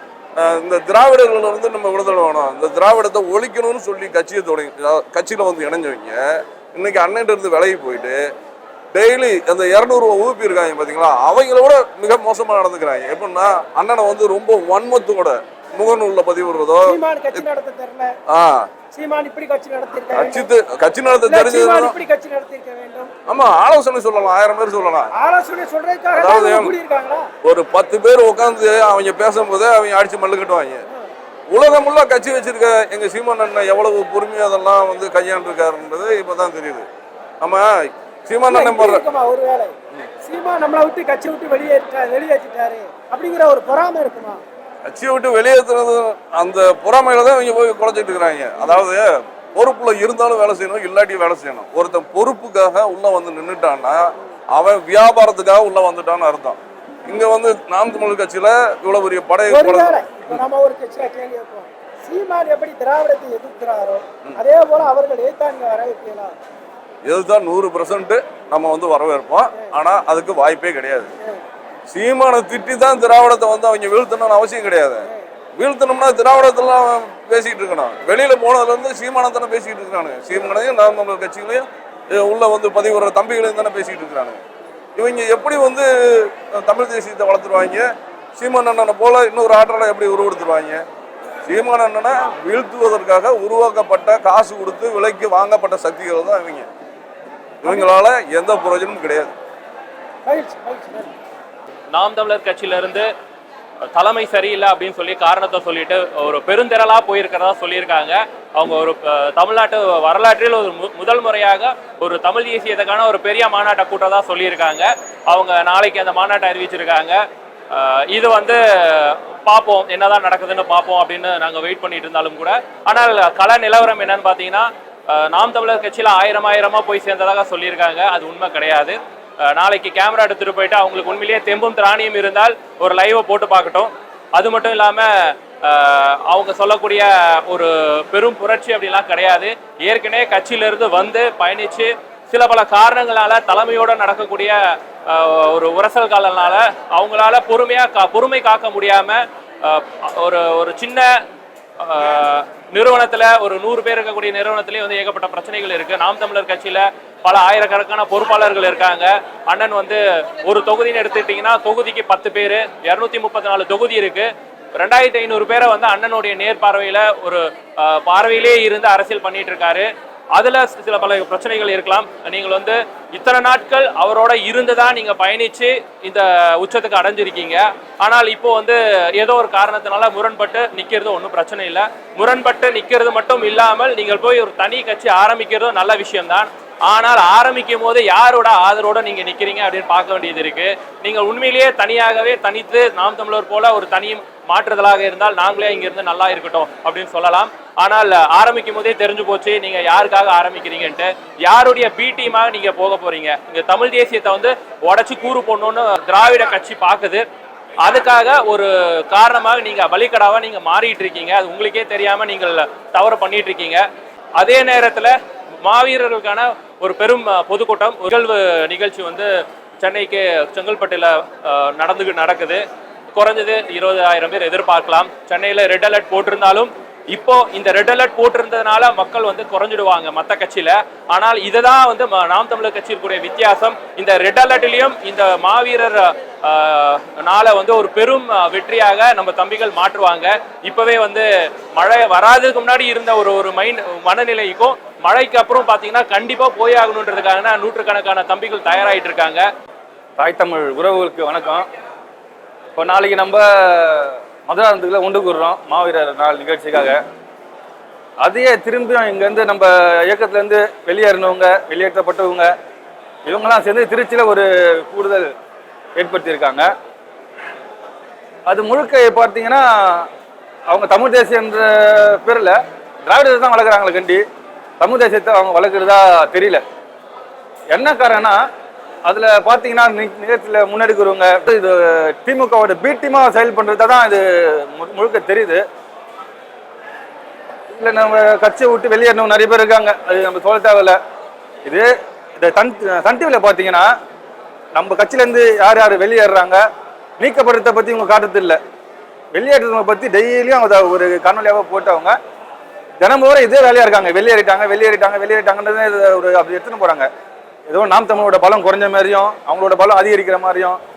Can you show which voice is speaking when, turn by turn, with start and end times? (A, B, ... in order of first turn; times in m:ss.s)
0:00.4-0:06.2 A
0:06.7-0:08.2 A
0:08.9-0:17.4 A
0:16.9-0:18.1 B
0:18.3-0:18.7 A
0:18.9-0:20.5 B
0:20.1-0:21.9 A
0:21.3-0:23.1 B
0:23.3-0:25.1 A
0:25.1-0:27.3 B
0:26.1-0:26.7 A
0:27.4-0:30.8 A
0:31.5-0:36.9 A
0:37.4-0:37.7 A
0:38.3-0:39.0 A
0:38.5-0:44.4 B
0:44.9-0:54.0 A
0:54.5-1:00.4 A
0:59.5-1:06.4 B
1:07.0-1:11.1 A
1:11.9-1:24.4 A
1:25.0-1:27.9 A
1:28.4-1:30.8 A
1:31.5-1:36.7 A
1:37.6-1:39.4 A
1:40.3-1:41.1 B
1:41.9-1:43.1 C
1:44.0-1:57.2 C
1:57.7-2:31.1 C
2:31.8-3:27.2 C
3:27.8-3:33.8 C
3:34.4-3:39.3 C
3:39.8-3:42.6 C
3:43.1-4:09.4 C
4:10.2-4:11.7 D
4:12.8-4:17.0 D
4:18.2-4:22.5 D
4:23.2-4:25.3 D
4:26.0-4:26.7 D
4:28.5-4:30.1 D
4:30.7-4:34.2 D
4:34.8-4:36.6 D
4:37.7-4:38.4 D
4:39.1-4:45.6 D
4:47.7-4:51.0 D
4:51.6-4:53.9 D
4:54.7-4:56.6 D
4:57.2-4:58.6 D
4:59.3-5:02.2 D
5:03.0-5:07.1 D
5:07.7-5:10.8 D